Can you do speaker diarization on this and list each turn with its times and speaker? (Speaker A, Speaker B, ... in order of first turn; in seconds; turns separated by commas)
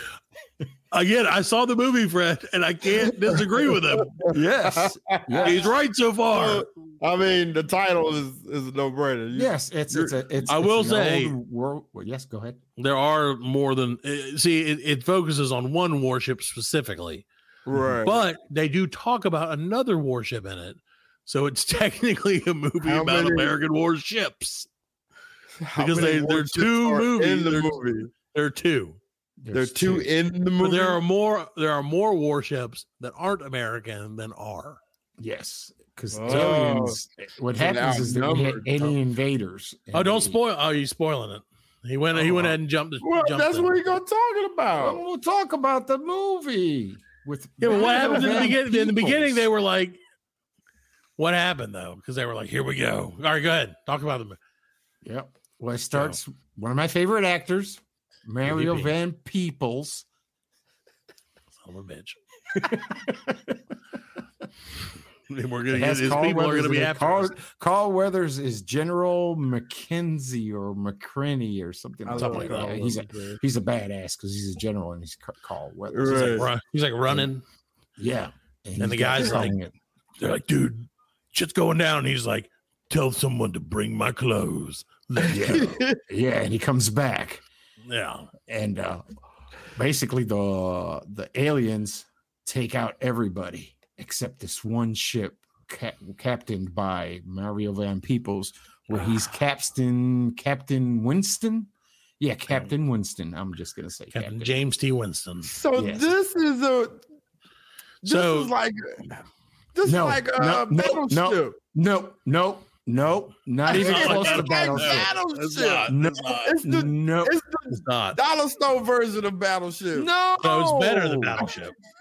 Speaker A: 0.9-4.2, Speaker B: 4.2-5.7, Speaker C: 4.3-5.7, Speaker A: 5.4-6.7, Speaker B: 6.3-10.2, Speaker C: 9.3-12.6, Speaker A: 10.5-11.4, Speaker A: 12.8-17.3, Speaker B: 17.7-18.2, Speaker A: 18.0-24.7, Speaker B: 22.8-23.6, Speaker B: 25.6-28.1, Speaker A: 25.8-27.8, Speaker A: 28.3-29.0, Speaker C: 29.4-30.1, Speaker B: 29.5-31.0, Speaker A: 30.6-34.8, Speaker C: 35.2-40.4, Speaker B: 36.1-37.0, Speaker B: 37.6-38.9, Speaker A: 39.9-43.8, Speaker C: 42.1-42.5, Speaker B: 43.0-45.0, Speaker C: 44.7-49.5, Speaker A: 47.6-50.0, Speaker B: 47.7-48.6, Speaker A: 51.2-54.4, Speaker C: 55.0-60.1, Speaker A: 58.5-58.9, Speaker A: 61.6-62.2, Speaker C: 62.6-63.6, Speaker A: 65.3-67.4, Speaker C: 65.7-76.5, Speaker B: 72.1-73.4, Speaker A: 72.2-72.8, Speaker B: 75.9-76.5, Speaker A: 76.1-77.4, Speaker C: 78.0-79.8, Speaker A: 78.8-79.6, Speaker A: 80.2-85.8, Speaker B: 85.3-86.0, Speaker C: 85.3-87.4, Speaker A: 87.8-88.3, Speaker C: 88.5-89.0, Speaker C: 89.8-104.5, Speaker A: 104.1-105.5, Speaker B: 105.4-107.0, Speaker C: 105.8-106.1, Speaker A: 108.0-108.5, Speaker B: 108.0-109.0, Speaker B: 109.8-111.6, Speaker C: 109.8-115.1, Speaker A: 113.7-116.6, Speaker B: 113.7-120.1, Speaker C: 115.9-117.4, Speaker A: 117.7-118.2, Speaker C: 119.9-121.4, Speaker A: 120.4-121.8